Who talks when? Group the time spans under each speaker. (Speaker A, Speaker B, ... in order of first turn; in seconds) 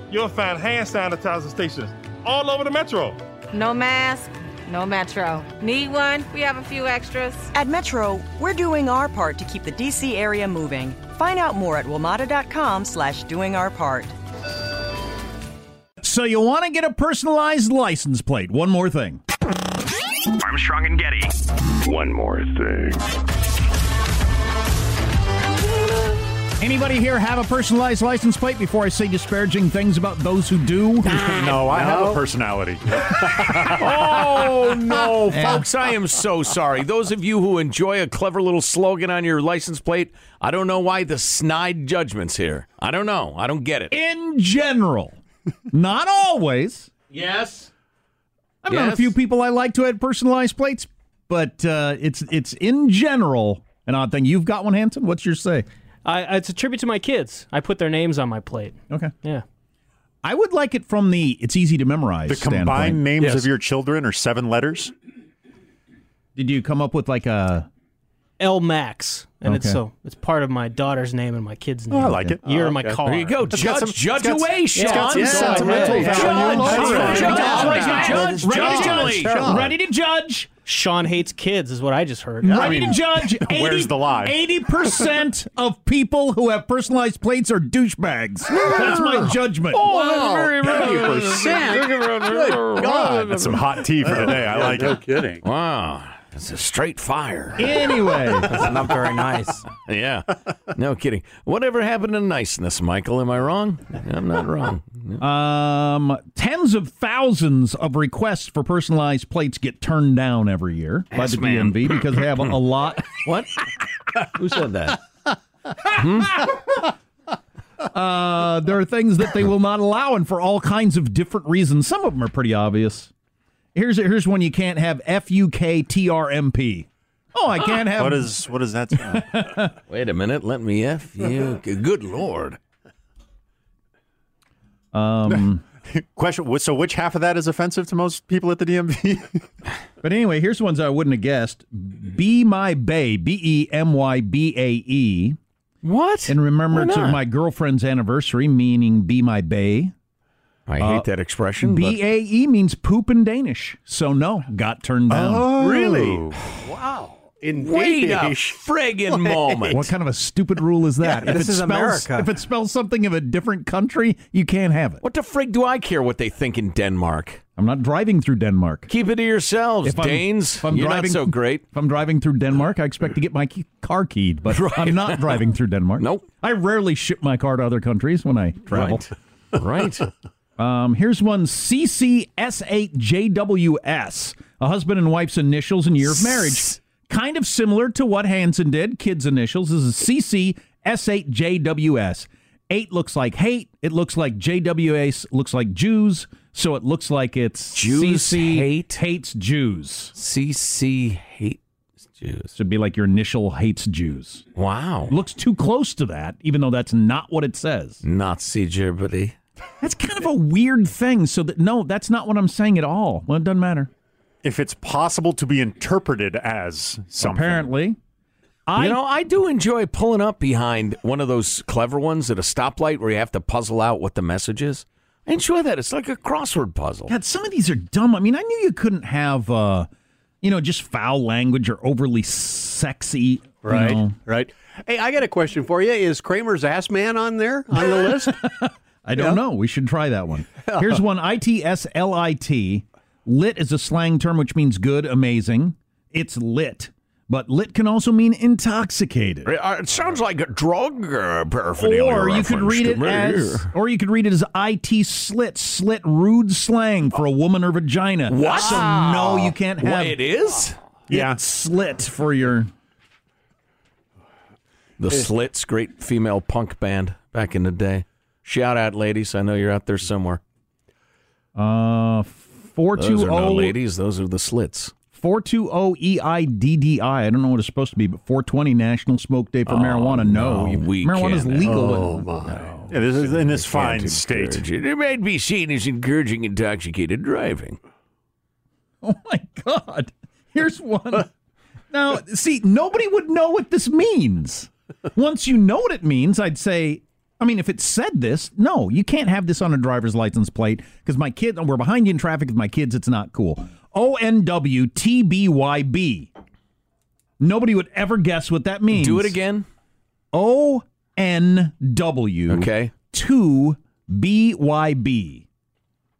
Speaker A: 0.1-3.2
Speaker B: 3.5-7.5
Speaker C: 7.5-14.1
Speaker D: 16.0-19.2, 26.6-31.2, 35.3-35.7, 43.9-45.2, 45.7-46.9, 48.6-55.6, 60.2-63.0, 66.3-67.7, 69.5-69.8, 72.0-72.4, 74.8-80.5, 82.4-89.9, 97.6-98.7, 105.2-113.2, 117.9-123.1, 123.7-128.4, 128.9-129.7, 134.9-135.6, 140.0-145.4, 146.3-149.9, 150.8-151.1, 151.6-155.6, 159.7-165.0, 167.6-168.9, 169.8-179.1, 180.6-200.1, 202.5-204.4, 205.1-208.0, 209.8-213.9, 217.2-218.0, 218.7-219.0, 227.1-229.9, 230.4-234.1, 237.7-249.5, 251.8-260.2, 261.1-262.7, 271.5-273.8, 275.1-283.0, 289.0-291.3, 291.9-306.3, 307.4-309.4, 310.3-315.4
Speaker E: 20.4-21.3, 21.8-22.9, 31.3-31.6, 33.6-43.9, 47.1-47.7, 48.7-49.1, 73.0-75.1, 76.0-79.5, 88.5-93.6, 95.4-98.6, 99.8-105.2, 111.1-112.5, 113.2-113.6, 114.1-115.0, 115.8-116.4, 129.9-132.6, 145.8-147.2, 150.7-152.0, 157.6-159.9, 165.0-167.4, 168.9-171.6, 174.5-175.5, 176.0-176.2, 178.7-180.1, 186.1-186.7, 197.7-199.0, 200.1-201.6, 202.2-202.5, 204.5-205.1, 208.0-209.3, 218.7-227.1, 249.4-253.7, 258.3-260.8, 265.0-270.4, 272.9-274.9, 279.6-282.0, 283.3-287.8, 308.9-309.7, 312.5-312.9
Speaker F: 31.1-34.3, 62.3-64.9, 71.9-72.5, 73.5-77.3, 83.4-84.4, 93.2-95.0, 127.9-129.3, 135.4-139.4, 155.1-156.4, 214.4-217.7, 261.1-261.4, 282.9-284.6
Speaker G: 31.6-32.2, 33.1-33.4, 63.2-63.5, 72.4-73.0, 75.0-79.7, 82.4-82.9, 89.8-95.4, 155.5-159.8, 233.6-238.4, 239.1-239.4, 240.7-241.0, 281.6-282.8
Speaker H: 56.0-59.4, 68.4-73.6, 74.7-77.2, 80.6-82.9
Speaker I: 76.8-79.7, 98.5-99.7, 161.0-162.3